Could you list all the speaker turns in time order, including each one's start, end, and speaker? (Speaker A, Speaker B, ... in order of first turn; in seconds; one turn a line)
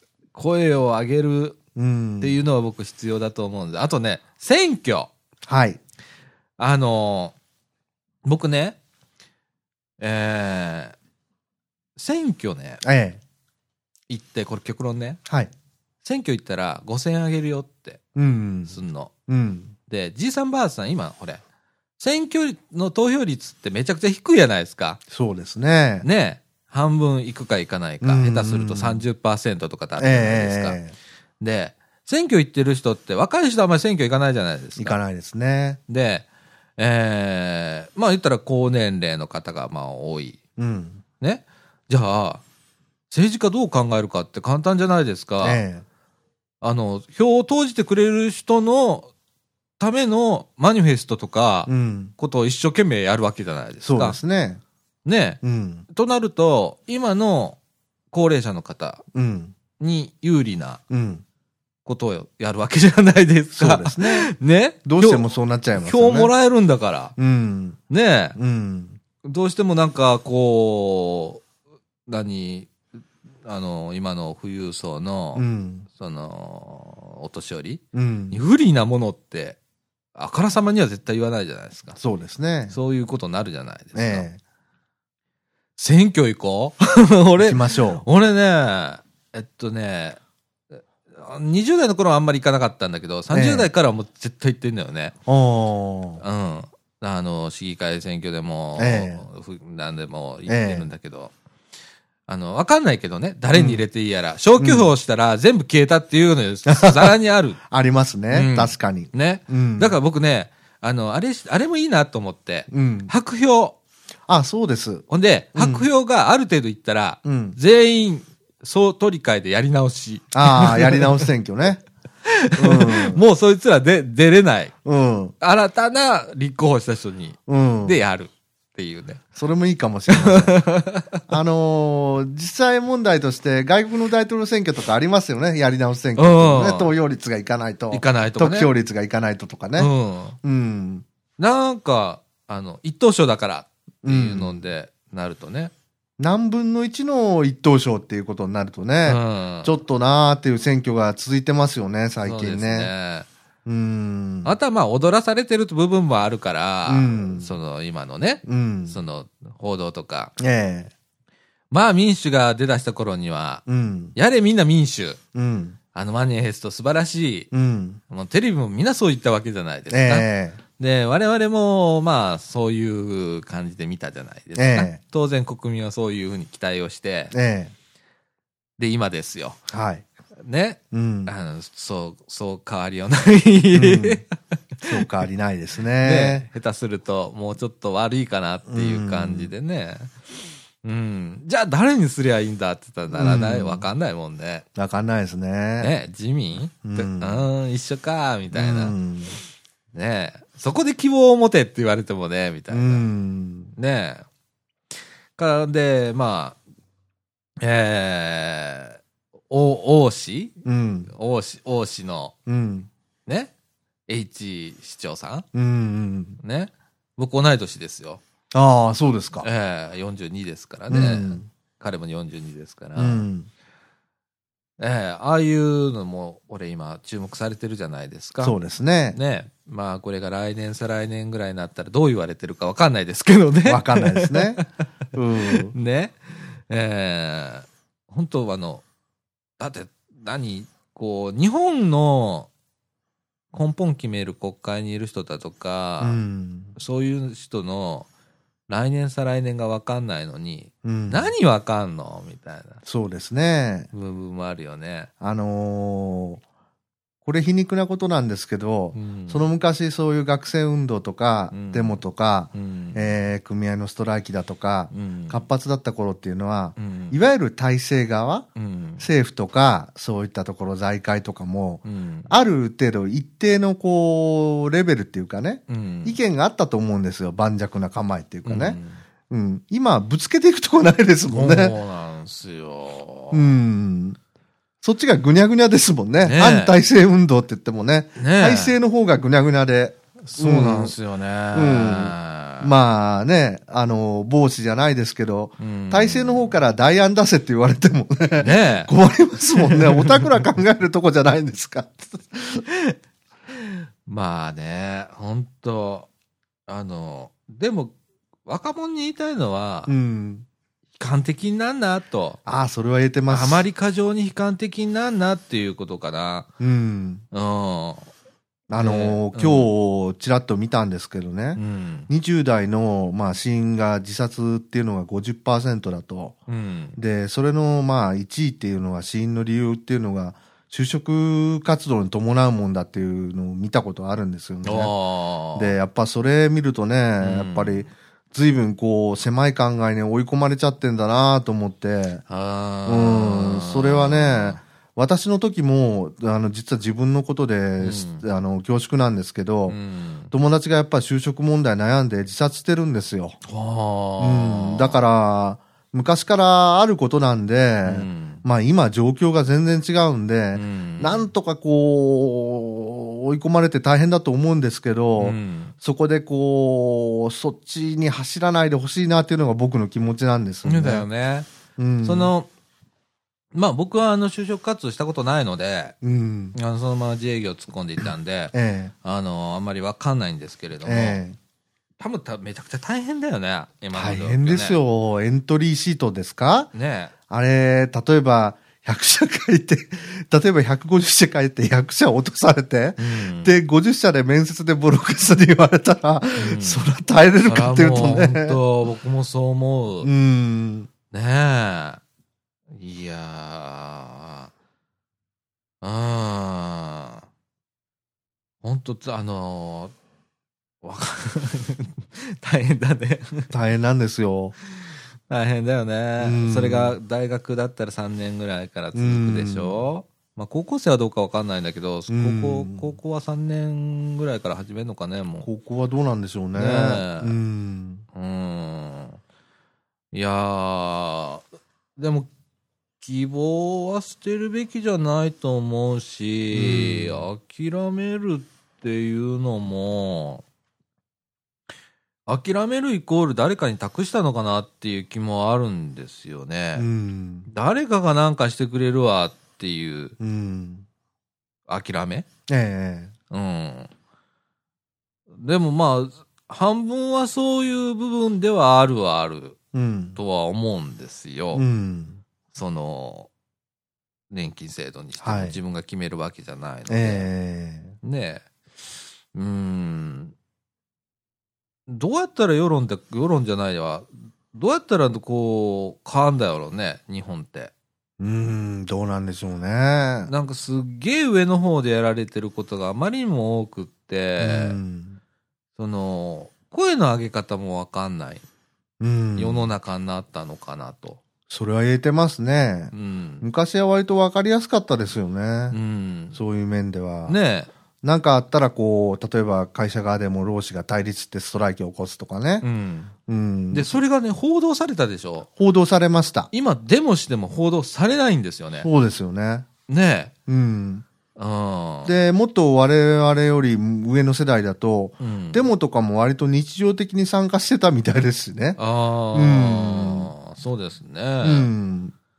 Speaker A: 0.3-1.6
Speaker B: 1.8-2.4
Speaker A: 2.2-5.1
Speaker B: 5.5-5.8
Speaker A: 6.6-7.3
Speaker A: 8.2-8.8
Speaker A: 10.0-10.9
Speaker A: 12.0-12.8
Speaker B: 12.8-13.2
Speaker A: 14.1-15.2
Speaker B: 15.3-15.5
Speaker A: 16.0-18.0
Speaker B: 18.1-18.8
Speaker A: 18.7-19.1
Speaker B: 19.3-19.7
Speaker A: 19.9-21.4
Speaker A: 22.0-25.0
Speaker B: 25.1-26.1
Speaker A: 26.0-30.8
Speaker B: 28.0-29.0
Speaker B: 30.0-30.9
Speaker A: 31.4-35.0
Speaker B: 34.8-35.8
Speaker A: 35.9-40.4
Speaker B: 40.6-41.0
Speaker A: 41.2-42.4
Speaker A: 43.1-45.6
Speaker B: 45.4-45.9
Speaker A: 46.6-49.1
Speaker A: 49.8-54.2
Speaker B: 51.7-52.1
Speaker B: 53.8-54.6
Speaker A: 55.0-57.6
Speaker B: 55.4-55.9
Speaker A: 58.1-59.0
Speaker B: 59.1-59.5
Speaker A: 59.8-60.8
Speaker B: 60.9-61.2
Speaker A: 61.9-67.1
Speaker B: 63.5-64.3
Speaker B: 64.8-66.3
Speaker B: 67.2-67.8
Speaker A: 67.9-68.4
Speaker B: 68.4-69.0
Speaker A: 69.2-71.4
Speaker A: 72.1-72.7
Speaker A: 73.4-79.6
Speaker B: 75.3-75.9
Speaker B: 77.9-78.4
Speaker A: 80.1-82.0
Speaker B: 82.0-82.8
Speaker A: 82.7-84.3
Speaker B: 83.9-84.4
Speaker A: 85.8-90.2
Speaker B: 87.4-88.0
Speaker A: 91.1-95.2
Speaker B: 93.3-93.7
Speaker B: 95.3-96.2
Speaker A: 96.2-101.3
Speaker B: 98.8-99.2
Speaker B: 100.5-100.9
Speaker A: 102.3-107.6
Speaker B: 103.5-103.8
Speaker B: 104.6-104.9
Speaker B: 106.7-107.1
Speaker B: 107.7-109.9
Speaker A: 108.3-113.8
Speaker B: 112.7-113.1
Speaker B: 114.3-115.9
Speaker A: 115.1-121.3
Speaker B: 117.2-117.6
Speaker B: 120.3-121.8
Speaker A: 122.3-124.7
Speaker B: 122.6-123.2
Speaker B: 124.8-125.3
Speaker A: 125.4-129.2
Speaker B: 127.5-128.0
Speaker B: 129.3-130.6
Speaker A: 130.1-131.2
Speaker B: 131.3-139.9
Speaker A: 136.2-136.9
Speaker A: 137.9-138.7
Speaker A: 139.8-140.4
Speaker B: 140.4-141.1
Speaker A: 141.4-145.7
Speaker B: 144.0-144.6
Speaker B: 146.2-152.9
Speaker A: 149.1-149.7
Speaker A: 152.2-153.3
Speaker B: 153.7-154.6
Speaker A: 154.4-160.3
Speaker B: 156.9-157.5
Speaker B: 158.4-159.0
Speaker B: 160.4-160.9
Speaker A: 161.7-163.6
Speaker B: 163.7-164.1
Speaker A: 164.1-165.2
Speaker B: 165.3-165.8
Speaker A: 165.9-167.5
Speaker B: 167.5-168.0
Speaker A: 168.1-177.3
Speaker B: 169.9-170.6
Speaker B: 174.6-175.0
Speaker B: 177.3-177.7
Speaker A: 178.8-179.6
Speaker B: 179.7-180.1
Speaker A: 180.4-185.1
Speaker B: 180.9-181.3
Speaker B: 183.7-184.2
Speaker B: 184.8-186.5
Speaker A: 186.0-190.2
Speaker B: 188.7-189.5
Speaker A: 190.8-194.7
Speaker B: 193.1-193.9
Speaker B: 194.8-195.9
Speaker A: 195.8-198.9
Speaker B: 196.8-197.4
Speaker B: 198.5-199.4
Speaker A: 199.9-203.0
Speaker B: 202.7-203.7
Speaker A: 203.8-204.3
Speaker A: 205.4-206.6
Speaker A: 207.6-212.3
Speaker B: 210.6-211.1
Speaker B: 212.5-212.9
Speaker A: 213.3-213.5
Speaker A: 214.1-215.4
Speaker B: 215.5-216.4
Speaker A: 216.4-218.2
Speaker B: 218.5-219.4
Speaker A: 219.4-223.3
Speaker B: 220.9-221.4
Speaker B: 222.9-223.5
Speaker A: 224.8-228.6
Speaker B: 228.4-229.2
Speaker A: 229.1-234.9
Speaker B: 233.7-235.7
Speaker A: 235.5-238.8
Speaker A: 239.6-242.5
Speaker A: 243.5-246.2
Speaker B: 246.0-246.8
Speaker A: 246.8-248.1
Speaker A: 248.7-252.8
Speaker B: 250.8-251.3
Speaker B: 252.8-253.9
Speaker A: 253.9-255.1
Speaker B: 255.2-256.4
Speaker B: 257.2-268.5
Speaker A: 258.9-259.5
Speaker A: 261.5-263.2
Speaker A: 264.9-265.4
Speaker A: 266.8-267.2
Speaker A: 268.6-269.1
Speaker B: 269.0-278.8
Speaker A: 271.9-272.3
Speaker A: 275.7-276.2
Speaker A: 278.4-279.0
Speaker B: 279.3-281.7
Speaker A: 281.3-283.5
Speaker B: 283.3-284.2
Speaker B: 284.8-290.9
Speaker A: 286.2-286.7
Speaker A: 288.2-288.8
Speaker A: 290.2-292.7
Speaker B: 291.5-302.6
Speaker A: 295.6-296.6
Speaker A: 298.4-298.9
Speaker A: 299.6-300.3
Speaker A: 302.6-302.9
Speaker A: 303.5-306.1
Speaker A: 306.7-307.9
Speaker A: 308.4-309.9
Speaker B: 309.9-310.4
Speaker A: 311.0-312.4
Speaker B: 312.4-313.6
Speaker A: 313.3-316.5
Speaker B: 316.6-317.2
Speaker A: 317.3-318.1
Speaker B: 318.7-326.4
Speaker A: 318.7-319.7
Speaker A: 321.6-322.1
Speaker A: 326.5-327.0
Speaker B: 326.9-334.9
Speaker A: 334.6-335.8
Speaker B: 335.6-342.2
Speaker A: 337.2-337.9
Speaker A: 342.3-344.6
Speaker B: 342.9-349.8
Speaker A: 347.8-348.2
Speaker A: 349.7-350.3
Speaker B: 350.3-353.4
Speaker A: 353.5-355.0
Speaker B: 354.2-371.1
Speaker A: 357.9-358.4
Speaker A: 360.5-361.3
Speaker A: 365.2-365.7
Speaker A: 370.6-371.5
Speaker B: 371.8-372.3
Speaker A: 372.0-372.5
Speaker A: 373.5-375.9
Speaker B: 376.0-376.6
Speaker A: 376.5-381.2
Speaker B: 378.5-378.9
Speaker B: 380.9-381.4
Speaker A: 382.0-384.8
Speaker B: 383.9-386.7
Speaker A: 386.7-387.1
Speaker B: 387.3-398.6
Speaker A: 393.0-393.5
Speaker A: 396.4-396.9
Speaker A: 397.4-400.1
Speaker B: 400.0-400.9
Speaker A: 401.1-402.0
Speaker A: 402.8-404.5
Speaker A: 405.8-407.3
Speaker A: 408.6-409.9
Speaker A: 410.8-413.5
Speaker B: 413.5-414.6
Speaker A: 414.7-425.5
Speaker B: 416.2-416.9
Speaker B: 418.9-419.8
Speaker B: 422.1-422.9
Speaker B: 425.4-428.1
Speaker A: 426.5-427.4
Speaker A: 428.1-429.2
Speaker A: 430.1-431.4
Speaker A: 432.0-432.3
Speaker A: 433.0-440.4
Speaker B: 436.5-437.2
Speaker A: 442.3-446.9
Speaker B: 446.8-447.5
Speaker A: 447.5-450.1
Speaker B: 450.2-450.9
Speaker A: 451.7-452.3
Speaker B: 452.5-453.1
Speaker A: 453.3-453.9
Speaker A: 455.4-459.6
Speaker B: 459.7-460.2
Speaker A: 460.1-461.6
Speaker B: 461.5-462.2
Speaker A: 462.5-463.3
Speaker A: 464.3-467.3
Speaker B: 465.2-465.6
Speaker B: 466.9-467.9
Speaker A: 468.0-468.4
Speaker A: 469.3-470.4
Speaker A: 471.9-477.7
Speaker B: 478.2-480.3
Speaker A: 480.3-484.8
Speaker B: 484.4-485.2
Speaker A: 485.8-488.4
Speaker B: 489.0-489.7
Speaker A: 489.4-491.2
Speaker B: 491.5-495.8
Speaker A: 492.9-493.4
Speaker A: 495.7-496.4
Speaker B: 496.3-497.4
Speaker A: 497.3-497.7
Speaker B: 498.0-502.6
Speaker A: 502.6-503.1
Speaker B: 503.3-504.0
Speaker A: 503.7-505.5
Speaker B: 505.6-506.5
Speaker A: 506.5-508.9
Speaker B: 508.8-509.7
Speaker A: 509.9-510.3
Speaker B: 510.5-511.1
Speaker A: 511.4-512.2
Speaker B: 512.1-518.8
Speaker A: 515.2-515.7
Speaker A: 518.8-521.7
Speaker B: 519.3-520.3
Speaker B: 521.4-522.1